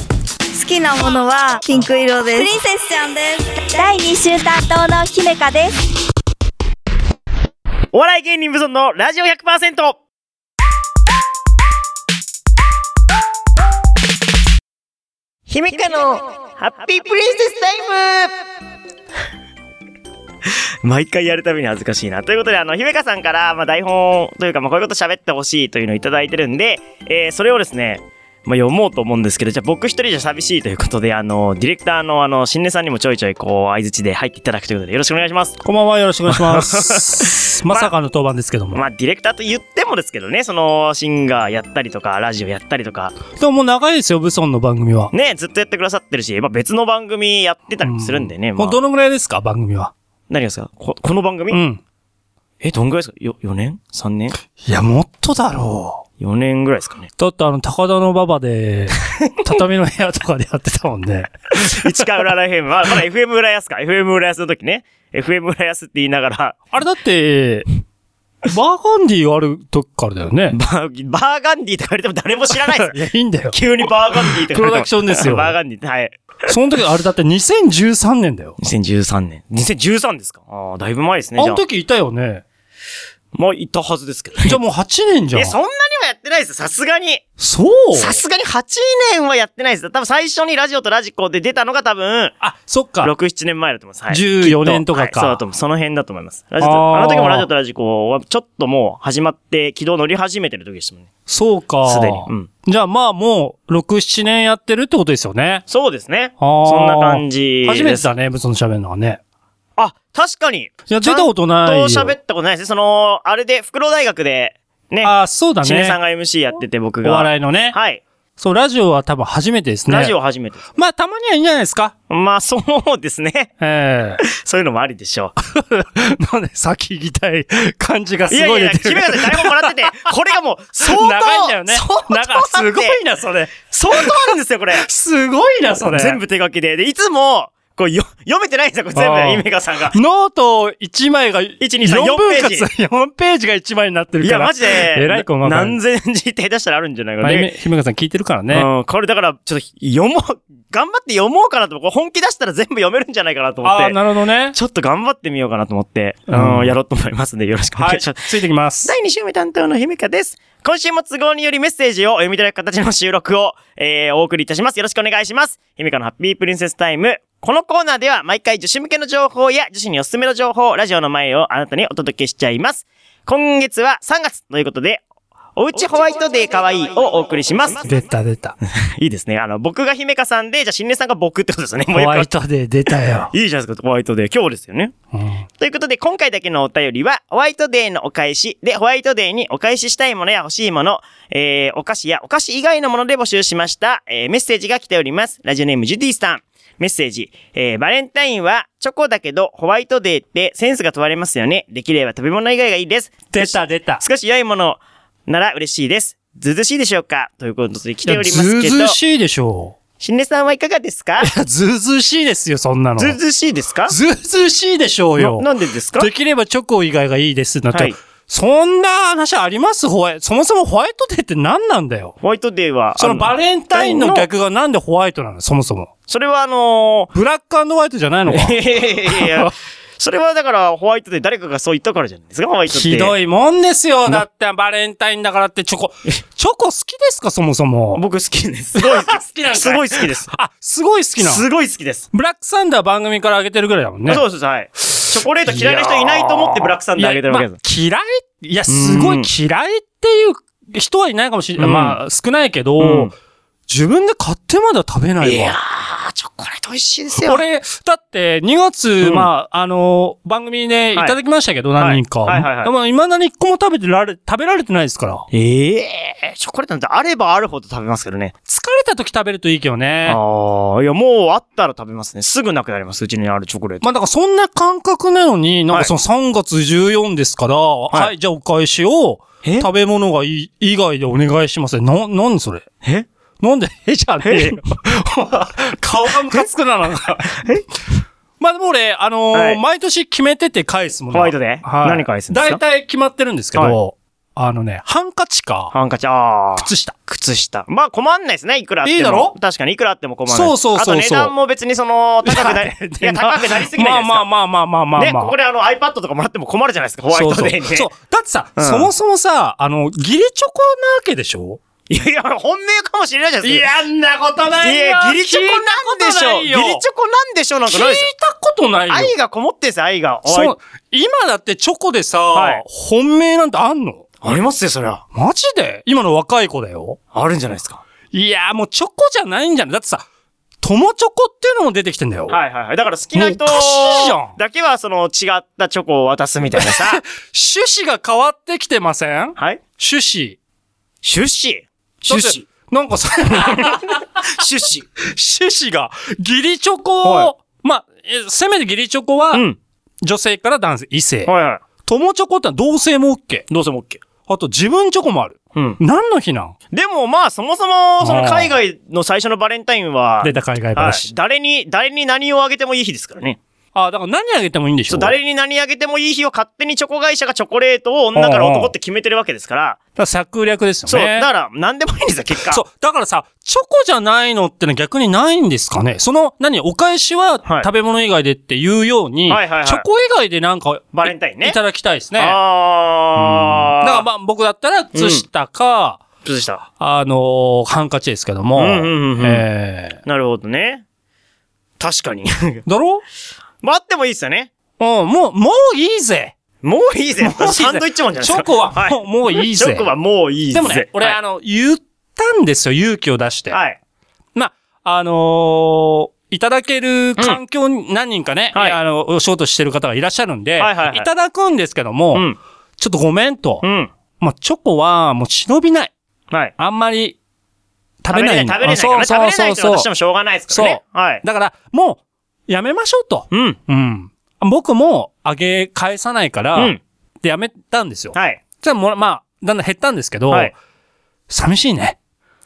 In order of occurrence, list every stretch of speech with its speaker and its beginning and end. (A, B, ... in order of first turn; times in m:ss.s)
0:00.5-0:05.7 A
0:07.9-0:10.0 B
0:15.5-0:18.3 B
0:20.8-0:35.6 B
0:35.6-0:38.8 C
0:36.3-0:37.9 B
0:38.7-0:43.2 B
0:43.3-0:45.1 C
0:45.1-0:48.8 B
0:47.8-0:49.9 C
0:50.3-0:51.6 B
0:51.5-0:51.8 C
0:52.6-0:54.4 B
0:54.6-0:56.0 C
0:56.2-0:57.1 B
0:57.2-1:02.0 C
1:01.5-1:06.6 B
1:06.7-1:07.7 C
1:08.5-1:10.6 C
1:10.5-1:13.0 B
1:12.7-1:15.6 C
1:13.5-1:16.5 B
1:16.5-1:18.6 C
1:18.6-1:21.6 B
1:21.4-1:22.4 C
1:23.3-1:24.6 B
1:24.5-1:25.6 C
1:25.3-1:27.2 B
1:27.4-1:28.2 C
1:27.9-1:32.4 B
1:32.4-1:33.1 C
1:33.0-1:41.1 B
1:34.1-1:35.4 C
1:36.6-1:37.5 C
1:41.3-1:45.6 C
1:41.8-1:42.5 B
1:45.7-1:48.1 B
1:46.4-1:49.2 C
1:49.8-1:58.0 B
1:50.9-1:52.2 C
1:55.0-1:56.0 C
1:57.0-1:57.8 C
1:58.4-2:00.2 C
1:59.9-2:00.6 B
2:00.8-2:01.9 C
2:02.1-2:03.5 B
2:03.6-2:04.2 C
2:04.2-2:05.4 B
2:05.4-2:10.1 C
2:08.3-2:13.0 B
2:10.8-2:16.2 C
2:13.7-2:14.9 B
2:15.8-2:20.0 B
2:19.0-2:25.8 C
2:21.6-2:22.7 B
2:24.2-2:27.5 B
2:27.2-2:28.7 C
2:28.5-2:34.0 B
2:33.6-2:34.6 C
2:34.5-2:38.3 B
2:36.3-2:36.7 C
2:37.8-2:38.9 C
2:38.8-2:55.0 B
2:55.6-2:57.9 B
2:57.8-2:58.6 C
2:58.7-3:02.3 B
3:01.9-3:03.3 C
3:03.3-3:04.9 B
3:05.1-3:05.4 C
3:05.6-3:29.0 B
3:23.3-3:24.0 C
3:28.0-3:29.8 C
3:30.0-3:31.3 B
3:31.2-3:33.2 C
3:33.0-3:34.0 B
3:33.9-3:42.2 C
3:35.2-3:36.1 B
3:37.7-3:38.0 B
3:42.2-3:44.3 B
3:43.0-3:45.9 C
3:46.1-3:47.1 B
3:47.1-3:49.5 C
3:48.3-3:53.1 B
3:52.7-3:58.0 C
3:57.9-4:00.3 B
3:58.8-4:01.4 C
4:01.2-4:02.1 B
4:02.1-4:04.2 C
4:04.1-4:07.6 B
4:05.5-4:13.1 C
4:08.7-4:09.3 B
4:11.6-4:12.0 B
4:12.8-4:13.1 B
4:13.7-4:15.6 C
4:15.2-4:17.4 B
4:17.2-4:25.3 C
4:19.0-4:19.3 B
4:21.8-4:22.7 B
4:25.3-4:28.3 B
4:28.5-4:30.2 C
4:30.1-4:33.8 B
4:33.8-4:42.7 C
4:39.4-4:39.7 B
4:42.8-4:43.1 B
4:43.4-4:47.4 C
4:44.2-4:44.6 B
4:47.3-4:47.7 B
4:48.4-4:55.7 C
4:49.3-4:49.6 B
4:51.1-4:52.6 B
4:55.7-5:04.3 B
4:56.6-4:57.0 C
4:58.8-4:59.4 C
5:00.3-5:01.3 C
5:02.2-5:05.4 C
5:05.0-5:07.9 B
5:07.1-5:11.6 C
5:08.6-5:08.9 B
5:11.9-5:13.7 B
5:13.4-5:16.8 C
5:14.6-5:18.1 B
5:17.7-5:19.1 C
5:18.9-5:20.6 B
5:20.3-5:24.0 C
5:22.3-5:22.6 B
5:24.2-5:25.0 B
5:25.1-5:27.0 C
5:27.1-5:27.8 B
5:28.1-5:30.0 C
5:30.6-5:32.4 C
5:32.3-5:37.0 B
5:33.2-5:34.4 C
5:36.6-5:40.4 C
5:39.4-5:39.6 B
5:41.0-5:42.4 B
5:42.1-5:44.0 C
5:43.3-5:44.9 B
5:45.0-5:49.5 C
5:47.0-5:47.3 B
5:49.3-5:49.6 B
5:50.0-5:53.5 C
5:51.3-5:51.6 B
5:53.5-5:54.0 B
5:54.3-5:56.5 C
5:55.6-5:55.8 B
5:56.7-6:03.4 B
5:58.0-5:58.5 C
6:00.2-6:01.1 C
6:03.7-6:05.2 C
6:04.9-6:09.8 B
6:08.2-6:08.7 C
6:10.0-6:11.3 C
6:10.9-6:12.6 B
6:12.5-6:22.4 C
6:17.4-6:17.7 B
6:19.3-6:19.9 B
6:20.9-6:21.6 B
6:22.2-6:24.0 B
6:23.2-6:26.0 C
6:24.9-6:25.2 B
6:26.2-6:26.6 B
6:26.8-6:30.0 C
6:28.6-6:29.4 B
6:30.0-6:30.8 B
6:31.8-6:32.6 B
6:32.7-6:33.0 C
6:33.6-6:34.5 B
6:34.8-6:36.3 C
6:36.6-6:41.2 B
6:37.2-6:39.9 C
6:40.5-6:43.6 C
6:43.5-6:43.8 B
6:44.4-6:53.6 C
6:50.6-6:51.1 B
6:53.6-6:53.9 B
6:54.2-6:55.9 C
6:56.6-6:57.2 C
6:58.0-6:59.9 C
6:58.1-7:01.2 B
7:00.5-7:10.5 C
7:03.3-7:03.6 B
7:06.6-7:06.8 B
7:08.1-7:08.4 B
7:11.3-7:12.0 C